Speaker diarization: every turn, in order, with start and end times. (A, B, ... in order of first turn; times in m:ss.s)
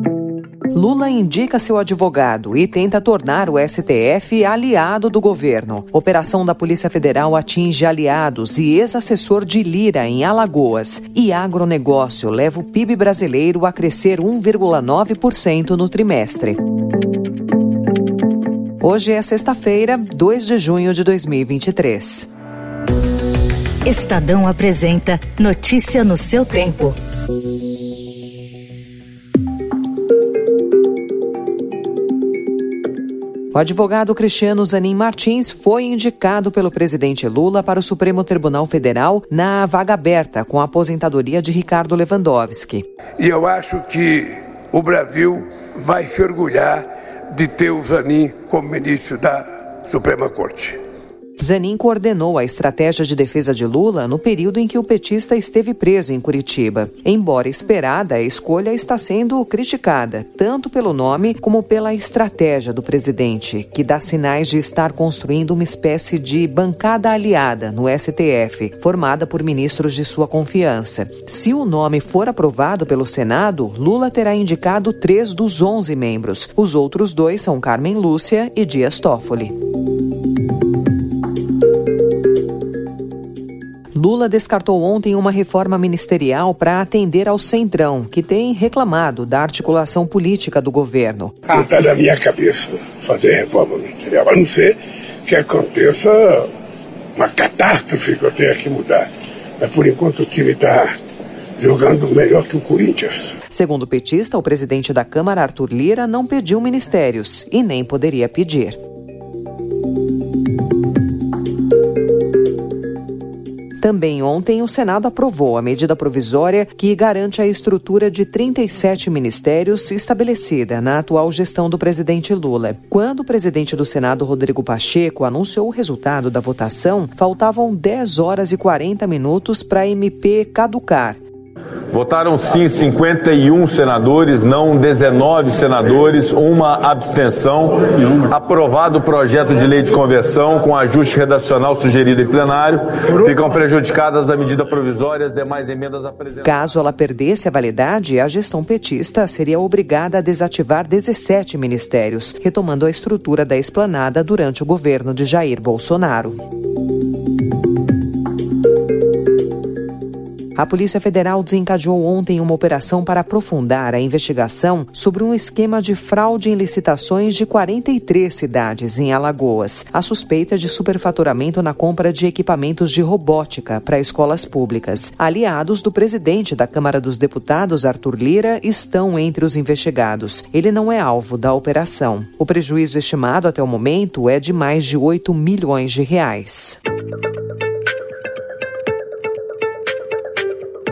0:00.7-0:16.6 A
0:18.8-0:22.3 A
0:23.8-0:26.9 B
0:33.5-0:42.8 A
0:43.2-0:50.8 C
0:51.4-1:19.5 A
1:23.9-1:31.4 A
1:31.5-1:34.7 C
1:35.2-1:36.5 C
1:37.2-1:39.1 C
1:39.6-1:40.9 C
1:41.6-1:43.4 C
1:43.5-1:48.8 A
1:53.8-2:11.2 A
2:11.9-2:26.5 D
2:26.4-2:36.4 A
2:40.6-3:06.8 A